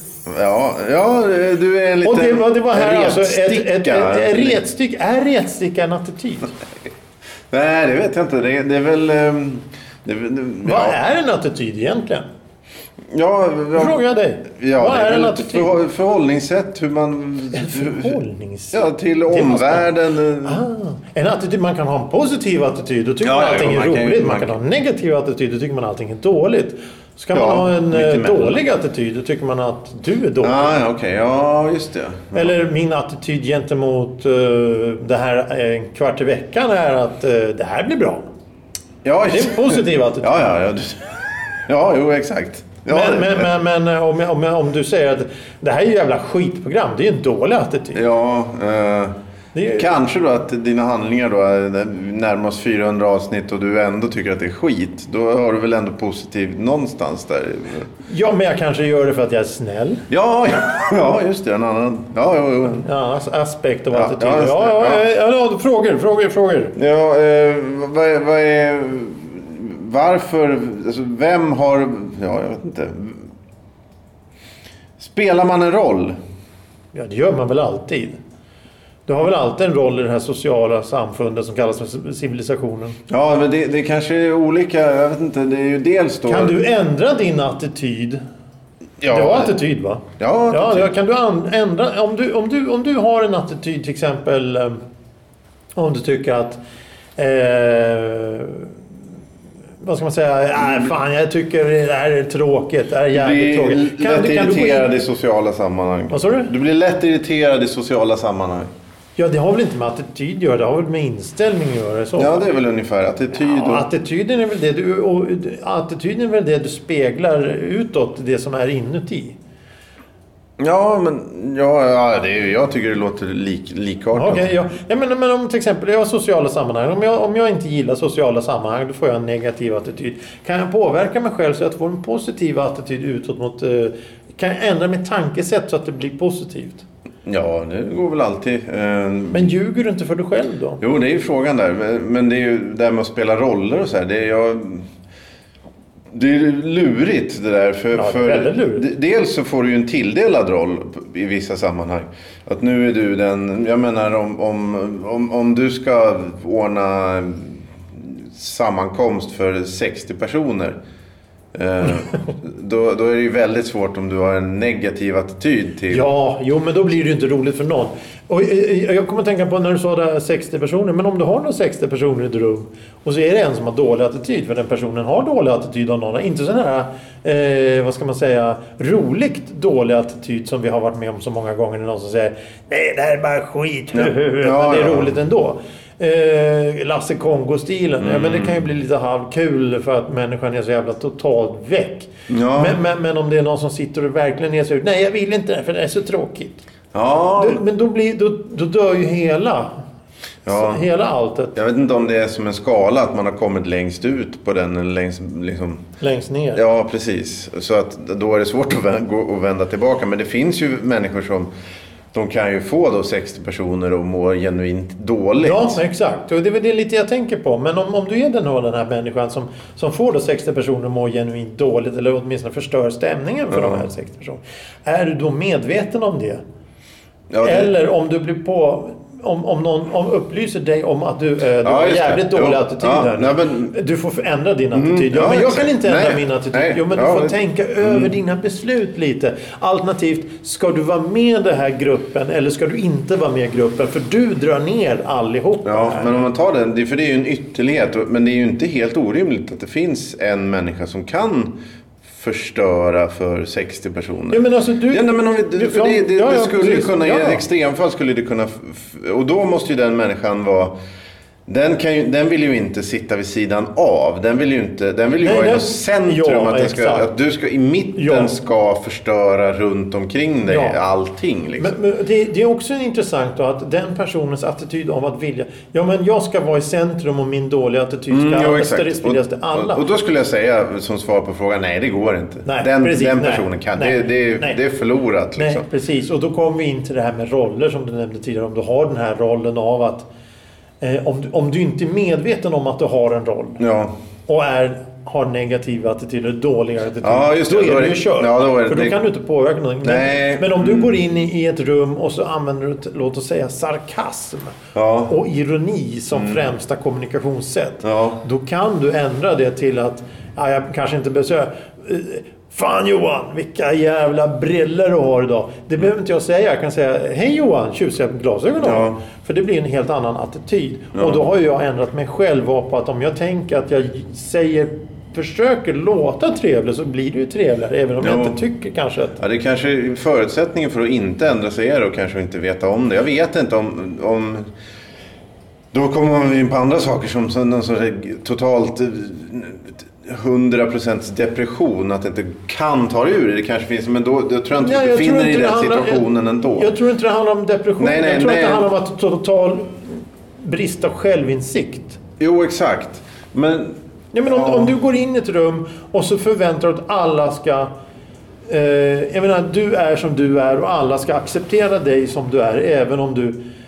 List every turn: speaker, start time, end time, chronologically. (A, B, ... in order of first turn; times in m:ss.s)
0:00.2-0:04.6 A
0:02.0-0:06.5 B
0:07.5-0:11.0 A
0:10.6-0:12.2 B
0:13.1-0:14.0 A
0:13.8-0:15.8 B
0:14.5-0:18.2 A
0:17.5-0:19.9 B
0:18.7-0:20.6 A
0:20.4-0:30.8 B
0:23.2-0:24.5 A
0:27.3-0:28.6 A
0:30.4-0:32.5 A
0:32.3-0:38.2 B
0:39.0-0:43.5 A
0:39.3-0:40.5 B
0:42.9-0:48.0 B
0:47.9-0:49.2 A
0:49.5-0:49.9 B
0:49.7-0:57.9 A
0:58.0-1:00.0 B
1:00.1-1:02.9 A
1:02.8-1:06.7 B
1:03.9-1:05.0 A
1:06.8-1:13.3 A
1:15.0-1:16.2 A
1:16.9-1:18.2 B
1:19.1-1:23.0 B
1:23.1-1:26.6 A
1:26.3-1:28.2 B
1:29.0-1:29.6 A
1:29.1-1:34.8 B
1:30.2-1:30.9 A
1:35.8-1:36.6 B
1:37.2-1:38.7 B
1:39.8-1:44.9 B
1:43.1-1:48.7 A
1:46.1-1:46.5 B
1:49.2-1:52.3 B
1:52.2-1:53.8 A
1:53.3-1:59.4 B
2:00.6-2:04.5 A
2:04.2-2:16.8 B
2:17.2-2:19.5 A
2:19.3-2:20.8 B
2:20.8-2:24.9 A
2:26.1-2:40.8 A
2:27.9-2:28.8 B
2:41.5-2:46.0 A
2:45.9-3:16.6 B
3:03.9-3:05.2 A
3:08.0-3:08.6 A
3:12.3-3:12.8 A
3:16.9-3:17.6 A
3:17.4-3:19.8 B
3:20.5-3:20.8 A
3:20.5-3:21.5 B
3:21.5-3:25.8 A
3:26.0-3:26.6 B
3:26.5-3:31.5 A
3:32.1-3:35.8 A
3:35.4-3:46.4 B
3:43.5-3:43.8 A
3:47.3-3:47.7 A
3:47.4-4:06.2 B
3:51.6-3:53.8 A
3:54.7-3:58.1 A
4:05.6-4:11.6 A
4:12.1-4:20.7 A
4:14.3-4:17.4 B
4:21.5-4:31.7 A
4:25.2-4:27.1 B
4:28.0-4:28.3 B
4:30.5-4:30.8 B
4:31.6-4:39.8 B
4:38.1-4:45.6 A
4:42.5-4:44.6 B
4:45.4-4:50.1 B
4:50.8-4:53.6 B
4:53.6-4:53.9 A
4:54.3-5:04.6 B
4:57.0-4:59.0 A
4:59.8-5:00.9 A
5:04.8-5:05.1 A
5:05.1-5:29.2 B
5:06.1-5:06.4 A
5:07.8-5:08.2 A
5:18.6-5:19.0 A
5:21.0-5:21.2 A
5:28.0-5:28.4 A
5:29.2-5:34.5 A
5:35.7-5:46.7 A
5:44.6-5:52.0 B
5:47.8-5:48.7 A
5:52.2-5:54.7 A
5:54.1-5:57.7 B
5:58.5-6:03.4 B